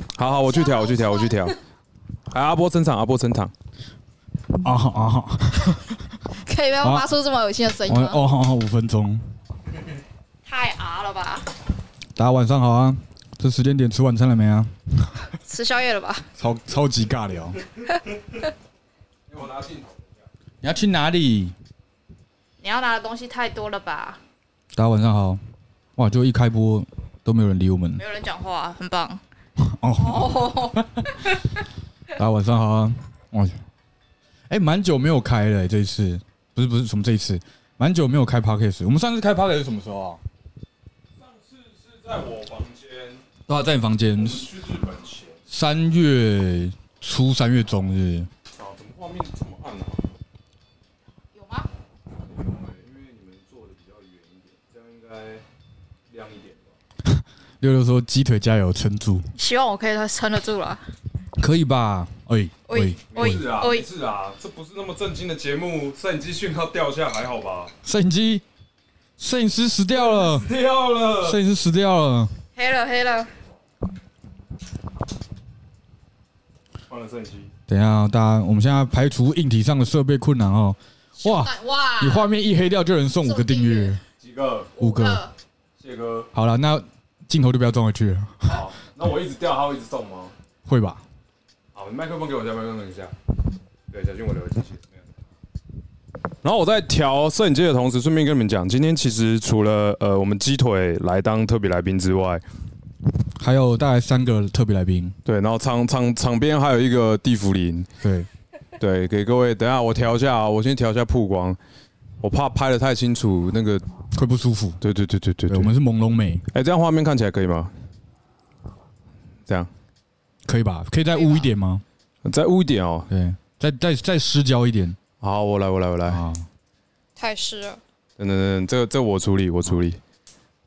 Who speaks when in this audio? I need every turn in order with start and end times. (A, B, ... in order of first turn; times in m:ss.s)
0:00.2-0:01.6 A
0:00.7-0:01.4 B
0:02.3-0:03.5 A
0:04.6-0:06.0 C
0:06.4-0:08.2 B
0:06.8-0:07.1 C
0:07.9-0:09.2 C
0:10.5-0:11.5 B
0:12.2-0:15.2 C
0:15.4-0:16.3 B
0:16.4-0:17.6 C
0:19.3-0:20.1 A
0:20.6-0:21.5 C
0:22.6-0:24.2 B
0:24.8-0:25.4 C
0:26.0-0:28.0 C
0:28.0-0:29.2 B
0:29.6-0:30.5 C
0:30.0-0:31.6 B
0:32.2-0:33.6 C
0:34.5-0:40.2 C
0:41.2-0:43.2 A
0:43.5-0:44.5 C
0:44.2-0:45.4 A
0:45.5-0:48.3 C
0:48.6-0:50.0 A
0:51.3-0:51.7 B
0:52.2-0:55.4 A
0:56.1-0:56.7 A
0:57.1-0:59.3 C
0:59.4-1:00.8 B
1:01.4-1:03.4 C
1:02.7-1:03.9 B
1:03.1-1:07.7 A
1:07.8-1:08.4 C
1:09.2-1:10.5 C
1:09.9-1:11.4 A
1:11.2-1:12.3 C
1:12.6-1:13.3 B
1:16.9-1:17.5 A
1:17.7-1:24.0 C
1:21.2-1:22.3 B
1:23.2-1:24.0 B
1:24.2-1:24.7 A
1:24.8-1:25.3 B
1:24.8-1:25.2 C
1:25.8-1:26.3 A
1:26.3-1:28.6 C
1:28.5-1:30.3 A
1:30.7-1:31.0 C
1:31.8-1:33.1 A
1:33.9-1:35.0 A
1:36.4-1:42.4 A
1:43.4-1:45.2 C
1:45.2-1:47.9 A
1:48.0-1:48.3 C
1:48.8-1:51.6 A
1:52.2-1:53.8 A
1:54.1-1:54.8 C
1:54.8-1:55.7 A
1:55.5-1:56.5 C
1:56.5-1:57.7 A
2:00.5-2:01.8 C
2:01.1-2:01.5 B
2:02.2-2:03.1 A
2:03.1-2:05.0 C
2:05.2-2:06.2 A
2:06.1-2:06.5 C
2:07.2-2:07.8 B
2:08.2-2:10.0 A